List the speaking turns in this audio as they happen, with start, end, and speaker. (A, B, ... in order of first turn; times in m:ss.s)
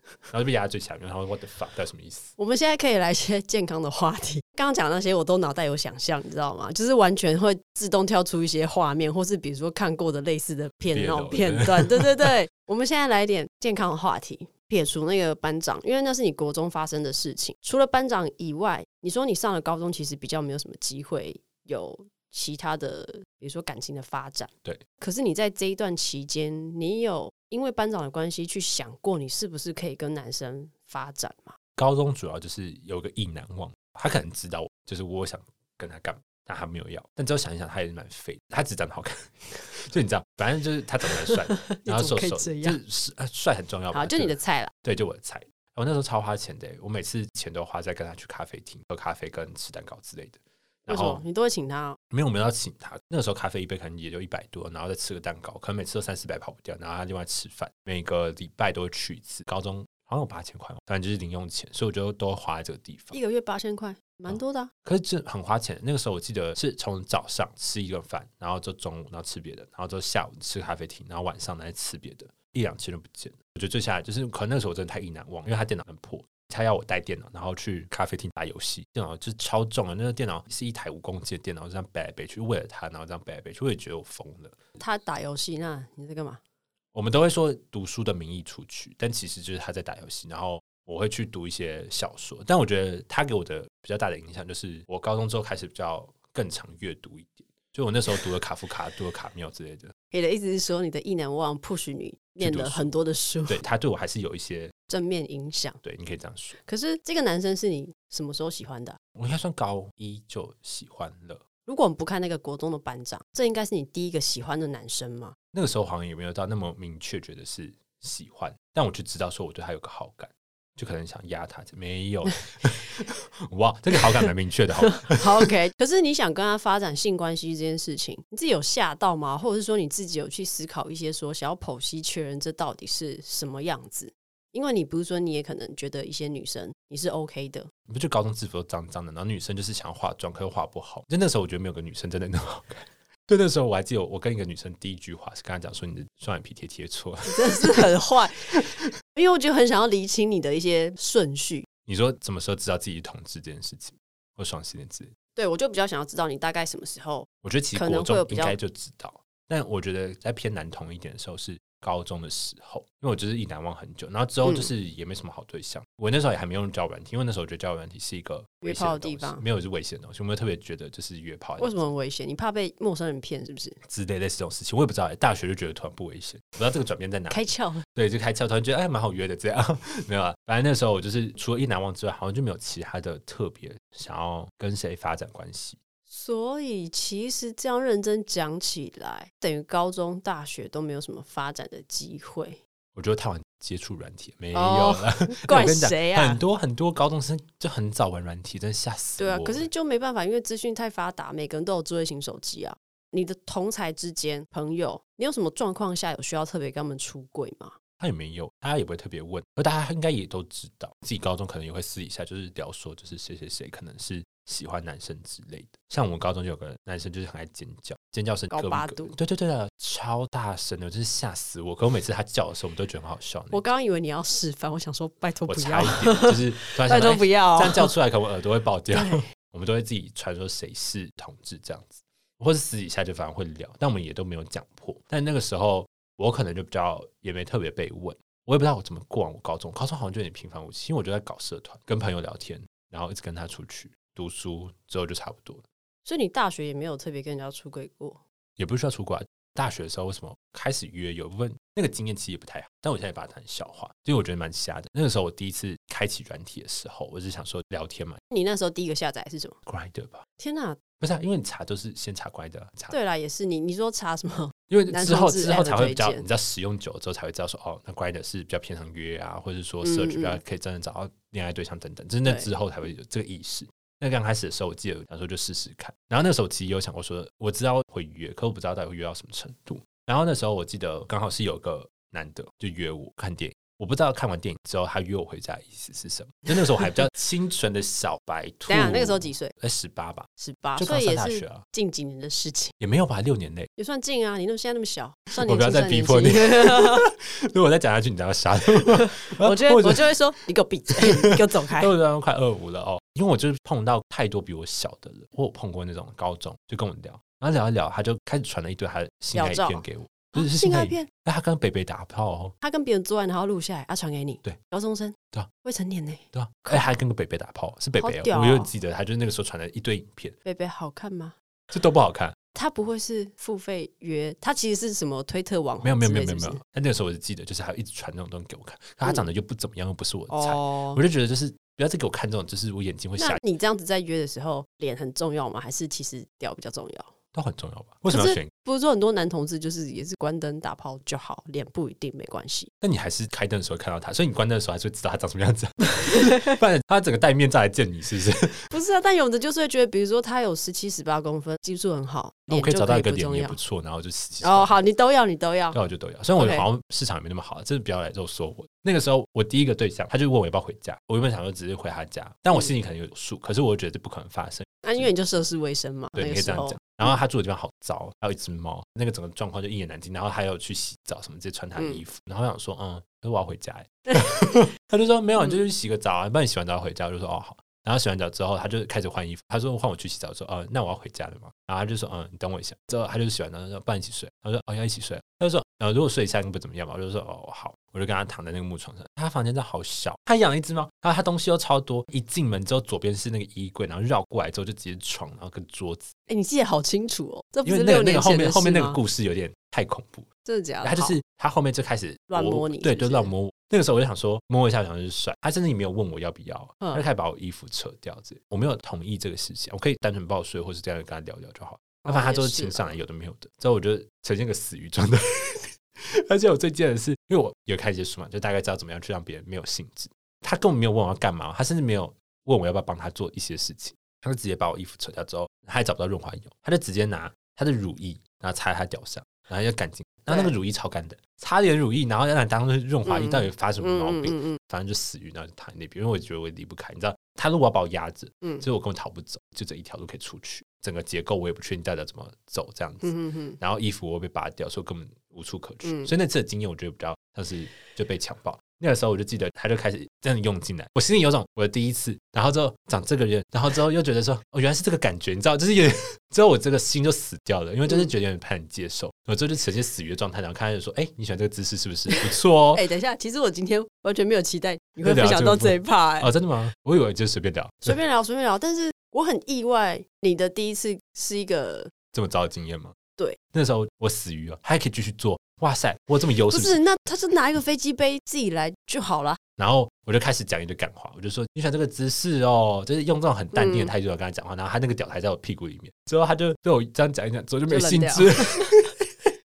0:00.3-0:02.3 A
0:02.4-0:31.6 B
0:10.9-0:12.3 A
0:31.8-0:51.2 A
0:41.3-0:42.8 B
0:43.9-0:44.7 B
0:50.9-0:52.0 B
0:52.1-1:03.2 A
1:03.1-1:04.7 B
1:04.3-1:24.6 A
1:24.8-1:26.4 B
1:26.9-1:39.9 A
1:40.1-1:43.6 B
1:42.4-1:42.9 A
1:43.5-1:44.7 A
1:44.9-1:45.8 B
1:45.8-1:46.6 A
1:46.5-1:49.0 B
1:49.2-1:51.4 A
1:51.6-1:55.4 B
1:55.5-2:05.4 A
2:05.0-2:17.7 B
2:17.9-2:27.9 A
2:27.2-2:31.7 B
2:31.9-2:35.1 A
2:35.4-2:38.6 B
2:37.4-2:51.7 A
2:44.4-2:44.7 B
2:48.6-2:49.4 B
2:51.6-2:53.8 B
2:53.8-3:05.8 A
2:57.3-2:57.8 B
3:06.1-3:12.6 B
3:13.0-3:19.7 A
3:14.5-3:16.4 B
3:19.2-3:27.8 B
3:28.0-3:43.6 A
3:38.5-3:39.2 B
3:43.5-3:47.9 B
3:45.5-4:05.6 A
3:48.9-3:49.2 B
4:06.0-4:08.2 B
4:08.6-4:18.2 A
4:18.3-4:19.6 B
4:19.7-4:20.2 A
4:20.4-4:20.8 B
4:21.0-4:22.9 A
4:22.9-4:26.2 B
4:24.7-4:51.6 A
4:29.8-4:30.4 B
4:32.2-4:32.5 B
4:48.7-4:49.5 B
4:50.4-4:52.7 B
4:52.8-4:53.7 A
4:53.8-4:57.0 B
4:55.4-5:00.1 A
4:58.9-5:01.9 B
5:01.0-5:12.5 A
5:09.3-5:11.1 B
5:12.6-5:16.9 B
5:16.3-5:20.4 A
5:18.0-5:18.7 B
5:20.4-5:21.3 B
5:21.7-5:22.3 A
5:22.5-5:26.6 B
5:25.8-5:33.4 A
5:30.3-5:31.0 B
5:33.2-5:37.1 B
5:37.3-5:38.5 A
5:38.1-5:42.7 B
5:42.8-5:48.6 A
5:46.0-5:46.6 B
5:48.7-5:53.6 B
5:52.5-5:54.8 A
5:54.4-5:55.8 B
5:55.7-6:05.1 A
5:56.4-5:56.6 B
6:04.8-6:07.0 B
6:06.2-6:36.1 A
6:36.3-6:39.0 B
6:37.6-6:40.3 A
6:40.4-6:41.2 B
6:40.8-7:42.8 A
6:42.3-6:43.3 B
6:52.0-6:52.9 B
7:10.3-7:10.5 B
7:13.0-7:14.6 B
7:23.0-7:23.6 B
7:42.1-7:46.3 B
7:45.0-7:48.0 A
7:47.8-7:51.9 B
7:52.1-7:52.9 A
7:53.5-7:56.8 A
7:56.5-7:59.4 B
7:59.6-8:08.9 A
8:03.5-8:03.9 B
8:07.7-8:08.7 B